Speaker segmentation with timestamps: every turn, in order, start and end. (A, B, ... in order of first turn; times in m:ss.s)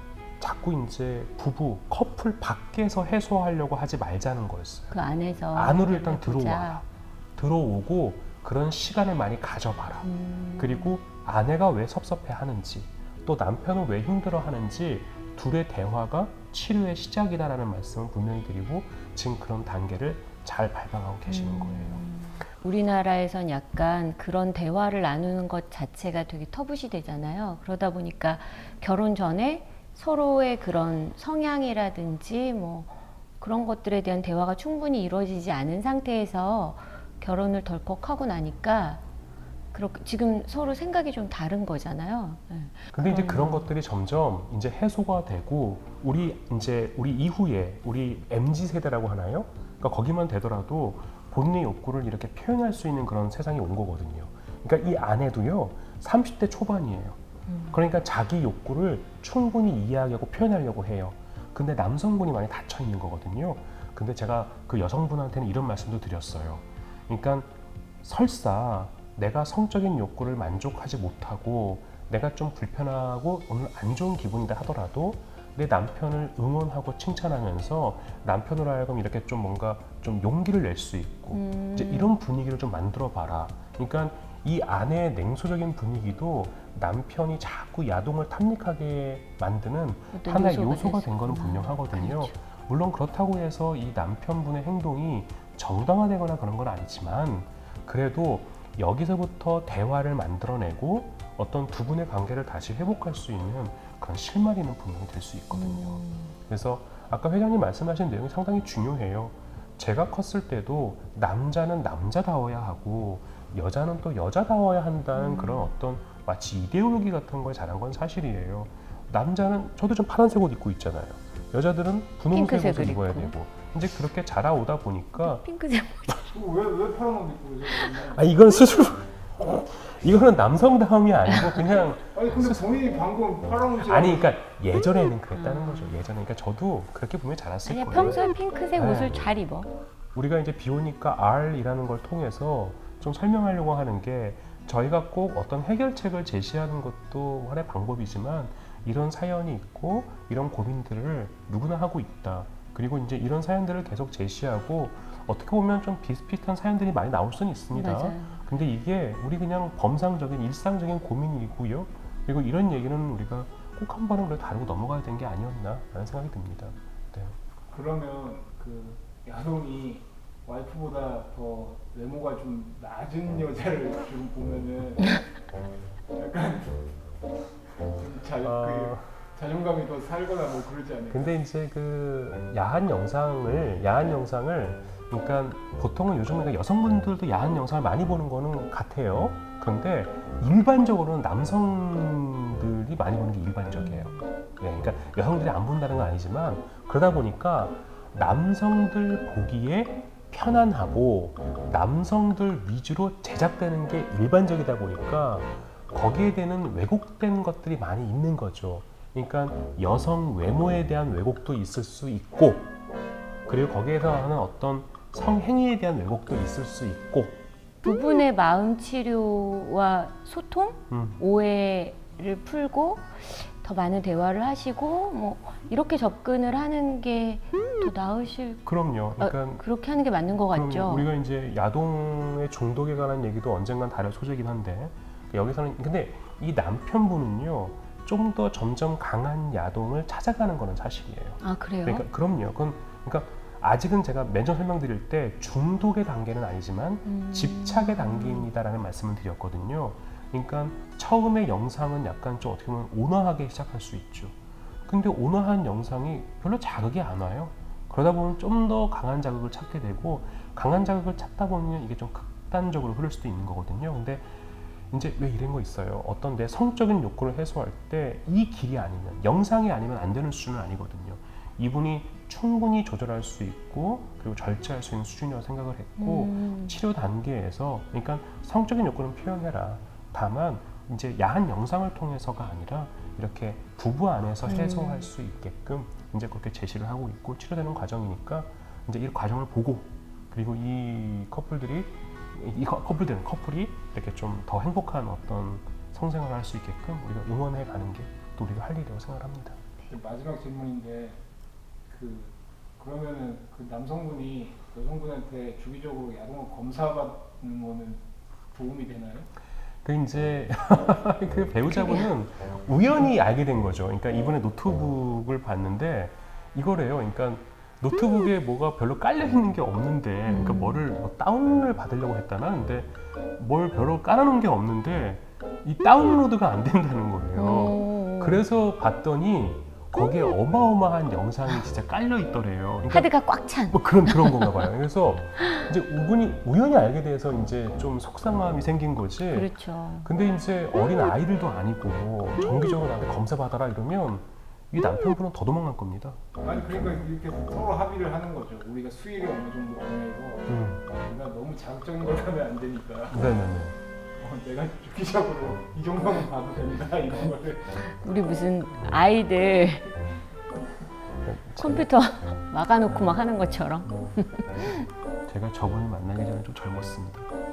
0:00.4-0:04.9 A
0:04.9-0:06.8 B
0:05.5-0:10.1 A
0:10.0-0:11.0 B
0:10.6-0:22.0 A
0:21.3-0:39.0 B
0:39.7-0:43.7 B
0:42.9-0:57.2 A
0:57.5-0:57.8 B
0:57.7-1:07.5 A
1:08.0-2:05.4 A
1:21.3-1:22.1 B
1:30.1-1:32.4 B
1:45.5-1:46.3 B
1:55.1-1:55.7 B
2:02.3-2:03.4 B
2:05.2-2:06.3 B
2:06.3-2:08.3 C
2:07.9-2:12.8 A
2:11.3-2:11.8 B
2:12.1-2:14.4 C
2:13.8-2:19.2 A
2:15.3-2:16.0 B
2:17.6-2:19.8 B
2:20.1-2:47.3 A
2:37.7-2:38.4 B
2:47.7-2:55.2 C
2:56.1-2:56.9 C
2:57.9-3:01.4 C
2:58.4-2:59.2 A
3:01.1-3:32.7 A
3:33.5-3:37.4 A
3:37.8-3:48.6 B
3:40.9-3:41.2 A
3:48.6-3:49.6 A
3:49.2-3:51.1 B
3:50.5-4:14.3 A
4:01.4-4:02.0 B
4:07.0-4:08.5 B
4:14.9-4:24.3 A
4:24.9-4:59.6 A
4:36.0-4:36.8 B
4:44.4-4:45.1 B
4:59.9-5:01.2 C
5:01.9-5:09.3 C
5:09.8-5:33.1 A
5:11.7-5:12.1 B
5:20.3-5:20.8 B
5:27.3-5:28.4 B
5:32.9-5:34.7 B
5:33.7-5:39.5 A
5:39.3-5:40.1 B
5:40.0-5:46.2 A
5:46.4-5:53.3 C
5:46.6-5:46.8 B
5:50.5-5:50.8 A
5:53.1-5:53.8 A
5:54.2-5:57.8 C
5:57.8-6:00.0 B
6:01.2-6:01.9 A
6:01.6-6:04.9 B
6:05.3-6:07.3 A